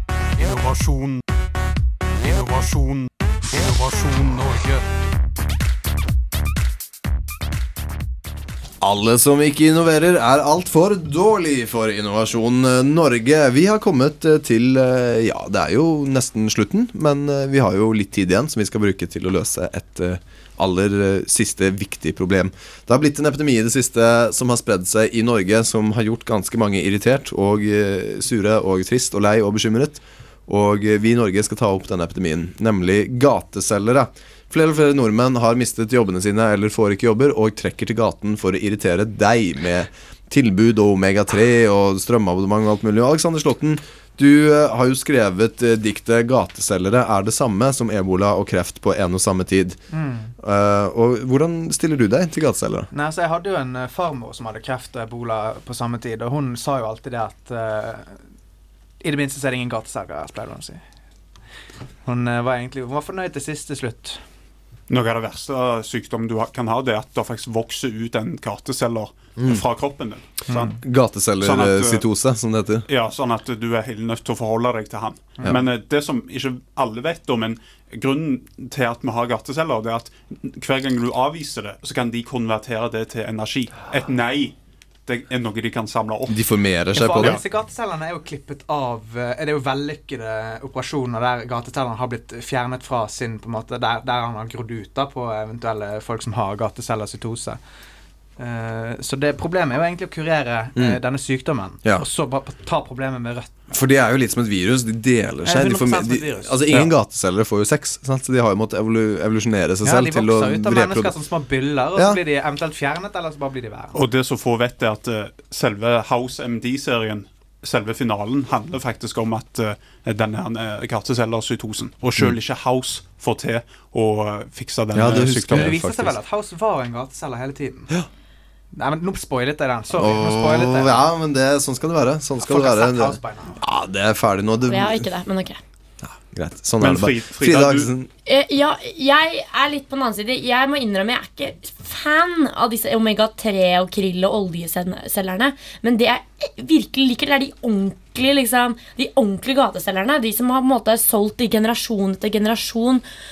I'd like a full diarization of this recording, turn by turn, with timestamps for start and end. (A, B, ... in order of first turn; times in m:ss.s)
0:00.4-0:01.2 A
0:02.2-0:04.8 A
0:08.8-0:49.8 B
0:49.9-0:50.3 C
0:50.4-0:52.9 B
0:52.9-0:58.1 C
0:59.0-1:00.8 C
1:02.1-1:04.2 C
1:04.9-1:10.8 D
1:09.4-1:09.6 B
1:10.5-1:10.8 C
1:10.8-1:12.9 B
1:11.4-1:12.0 D
1:12.9-1:24.6 D
1:25.1-1:26.4 D
1:26.3-1:27.4 B
1:26.9-1:37.6 C
1:27.2-1:27.4 D
1:38.4-1:43.7 C
1:43.7-1:51.1 B
1:45.4-1:46.6 C
1:49.8-1:54.0 C
1:52.0-1:52.2 B
1:53.9-2:05.8 D
2:04.9-2:06.2 B
2:05.5-2:07.9 C
2:08.8-2:11.0 C
2:09.9-2:15.1 B
2:12.4-2:13.6 C
2:14.7-2:15.6 E
2:16.0-2:18.1 B
2:16.8-2:17.9 D
2:18.3-2:33.0 E